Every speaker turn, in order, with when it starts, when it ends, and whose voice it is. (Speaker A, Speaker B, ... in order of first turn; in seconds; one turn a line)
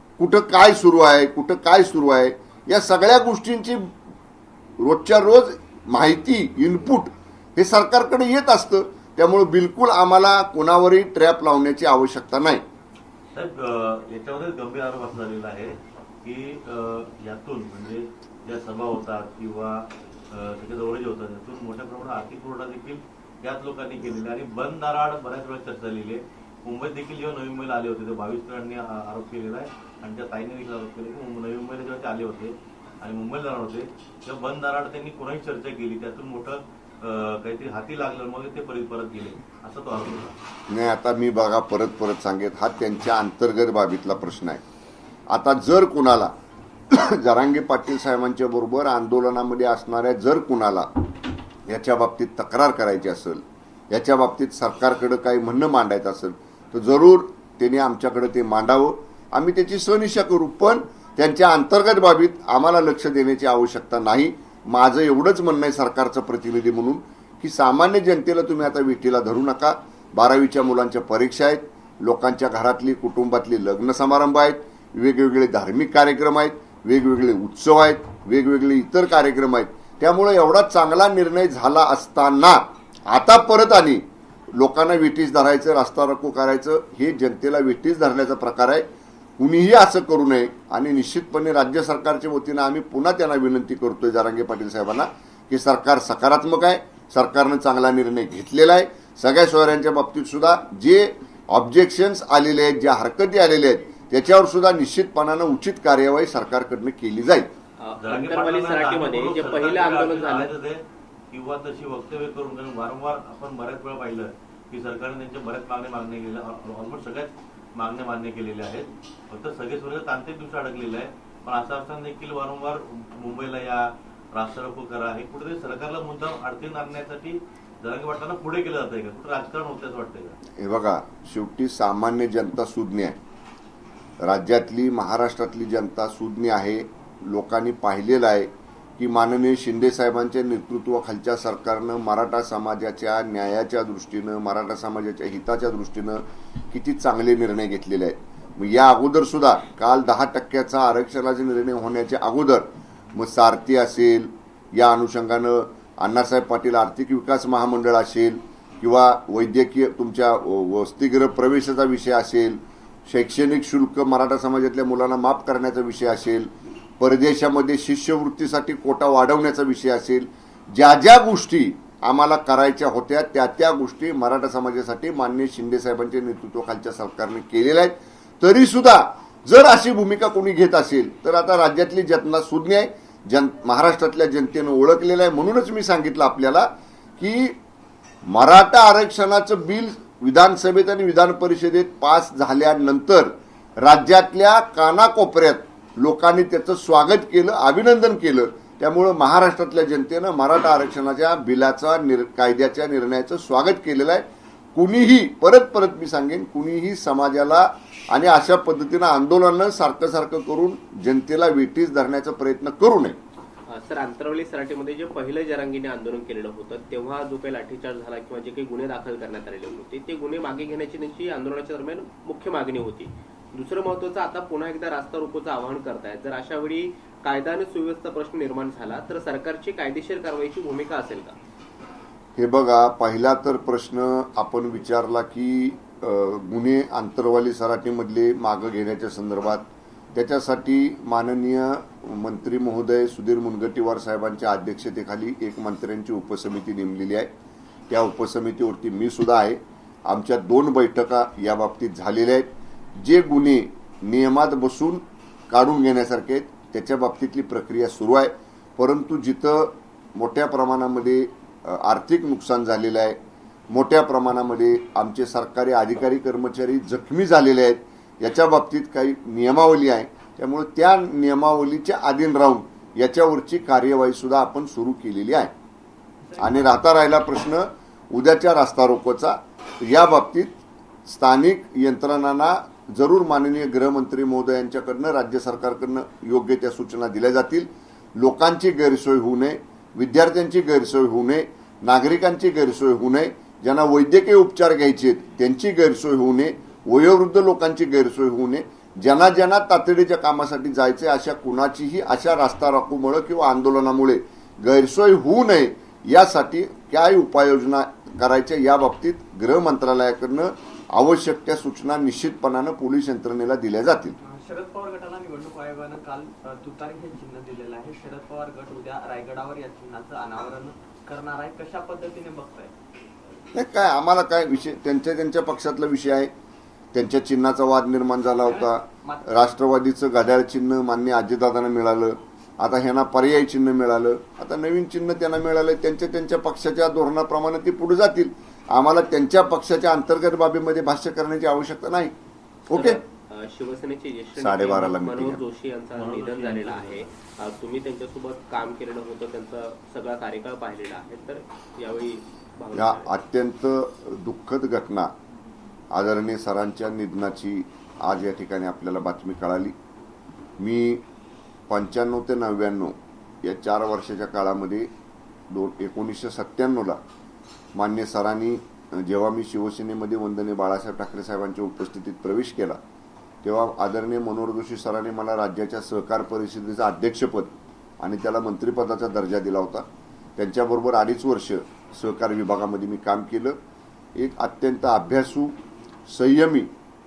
Speaker A: 0.2-3.9
Speaker A: 4.8-12.6
Speaker B: 13.3-15.7
Speaker B: 16.2-19.7
Speaker B: 20.3-40.4
Speaker A: 40.7-44.6
Speaker A: 45.3-46.3
Speaker A: 46.9-50.9
Speaker A: 51.7-88.8
Speaker A: 89.4-107.5
Speaker C: 107.8-110.5
Speaker B: 108.0-110.8
Speaker B: 111.3-123.8
Speaker B: 124.3-130.3
Speaker A: 130.6-133.2
Speaker A: 134.2-187.6
Speaker A: 188.2-193.3
Speaker A: 193.8-213.2
Speaker C: 213.7-231.3
Speaker A: 232.4-247.3
Speaker A: 247.9-263.2
Speaker A: 263.7-275.5
Speaker D: 276.3-276.7
Speaker A: 276.4-280.5
Speaker A: 281.1-314.2
Speaker D: 314.2-322.7
Speaker A: 323.5-326.3
Speaker A: 326.9-342.1
Speaker D: 328.5-329.5
Speaker A: 342.7-343.0
Speaker C: 342.7-353.1
Speaker A: 344.4-345.4
Speaker B: 345.9-347.0
Speaker A: 352.7-355.1
Speaker A: 355.9-359.7
Speaker A: 360.6-361.0
Speaker A: 361.7-364.9
Speaker A: 365.5-367.0
Speaker A: 367.7-372.8
Speaker A: 373.4-379.8
Speaker A: 380.4-383.6
Speaker A: 384.2-385.5
Speaker A: 386.1-386.7